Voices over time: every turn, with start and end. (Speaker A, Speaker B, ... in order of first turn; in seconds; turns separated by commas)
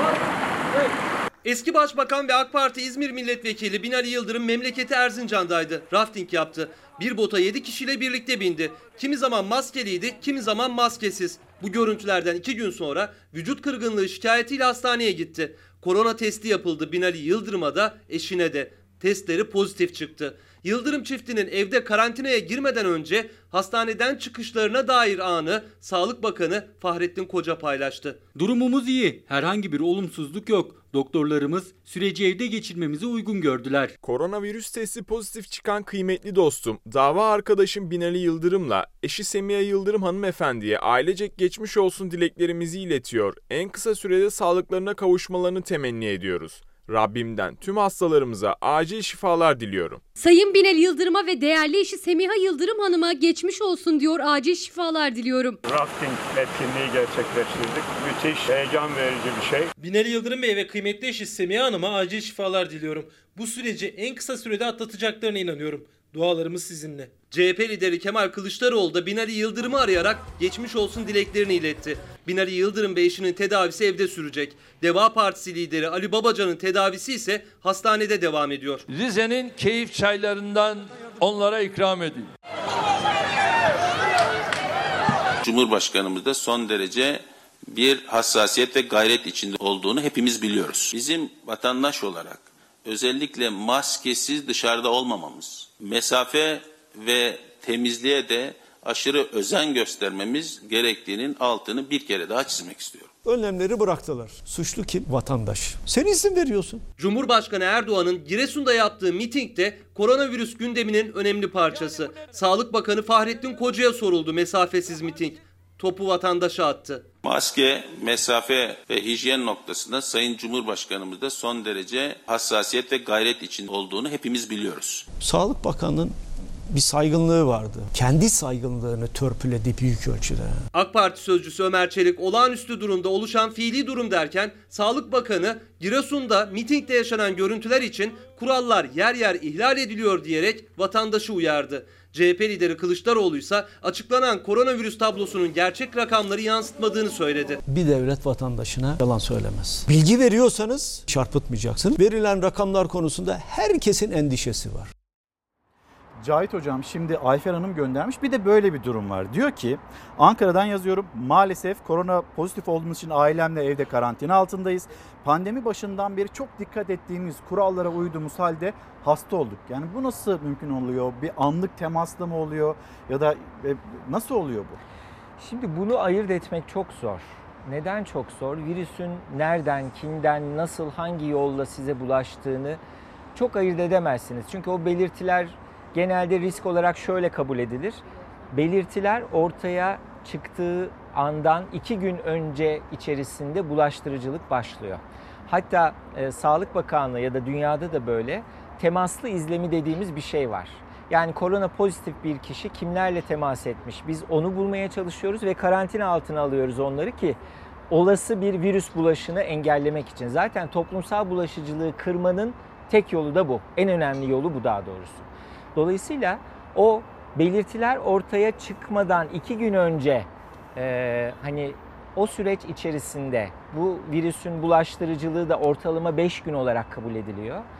Speaker A: 1.4-28.2, Speaker B: 28.3-33.9, Speaker C: 34.0-50.0, Speaker D: 50.2-55.6, Speaker E: 55.7-59.7, Speaker F: 59.8-67.1, Speaker A: 67.3-78.8, Speaker G: 78.9-82.3, Speaker H: 85.4-103.1, Speaker I: 103.2-106.8, Speaker A: 107.0-117.0, Speaker H: 117.2-125.0, Speaker I: 125.2-126.2, Speaker I: 126.7-130.6, Speaker A: 130.7-147.6, Speaker I: 147.7-154.9, Speaker J: 156.2-174.8, Speaker K: 175.4-182.8, Speaker K: 183.3-207.4, Speaker K: 207.9-227.7